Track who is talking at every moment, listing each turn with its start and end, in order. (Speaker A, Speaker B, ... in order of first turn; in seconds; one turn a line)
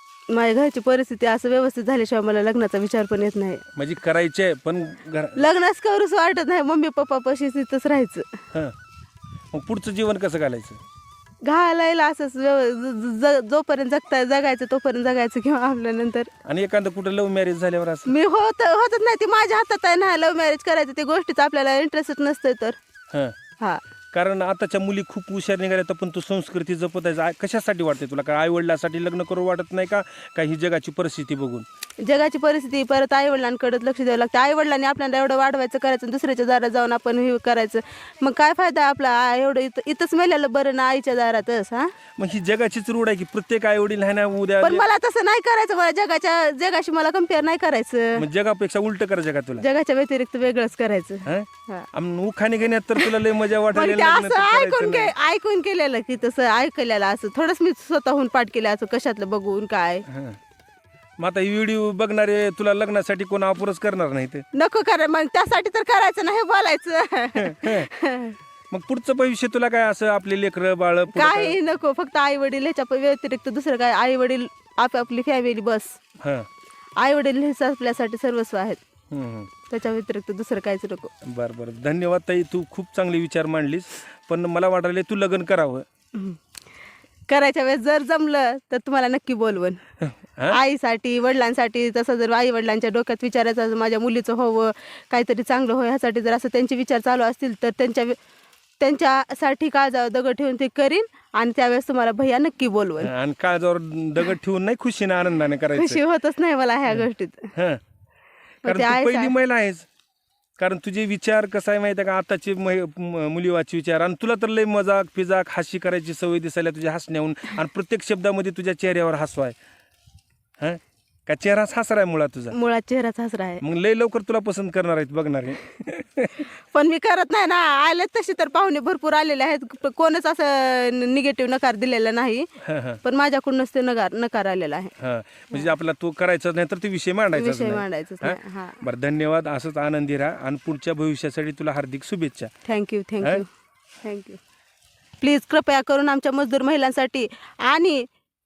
Speaker A: 0.3-3.6
Speaker B: 3.8-5.4
Speaker A: 5.4-8.2
Speaker B: 9.5-10.8
Speaker A: 11.4-16.3
Speaker B: 16.4-18.1
Speaker A: 18.1-22.8
Speaker B: 24.1-31.6
Speaker A: 32.0-41.9
Speaker B: 42.2-44.8
Speaker A: 44.6-48.2
Speaker B: 48.2-49.6
Speaker A: 49.6-51.9
Speaker B: 51.3-55.1
Speaker A: 53.7-60.0
Speaker B: 60.1-60.4
Speaker B: 61.2-64.5
Speaker A: 64.5-68.4
Speaker B: 67.4-67.9
Speaker B: 68.7-71.6
Speaker A: 71.2-76.0
Speaker A: 77.0-78.8
Speaker B: 79.1-79.5
Speaker A: 79.7-81.1
Speaker B: 81.3-85.8
Speaker A: 87.3-89.8
Speaker B: 90.1-90.6
Speaker A: 90.5-98.2
Speaker A: 98.8-103.1
Speaker B: 103.0-106.0
Speaker A: 105.8-107.5
Speaker B: 106.9-107.8
Speaker A: 108.7-109.3
Speaker B: 108.7-109.9
Speaker B: 110.6-119.5
Speaker B: 120.6-122.5
Speaker A: 122.5-123.6
Speaker B: 123.6-126.4
Speaker A: 126.7-132.5
Speaker B: 132.6-133.0
Speaker A: 133.0-134.9
Speaker B: 135.0-142.5
Speaker A: 137.3-138.8
Speaker A: 142.7-143.5
Speaker A: 144.0-144.4
Speaker A: 145.2-148.1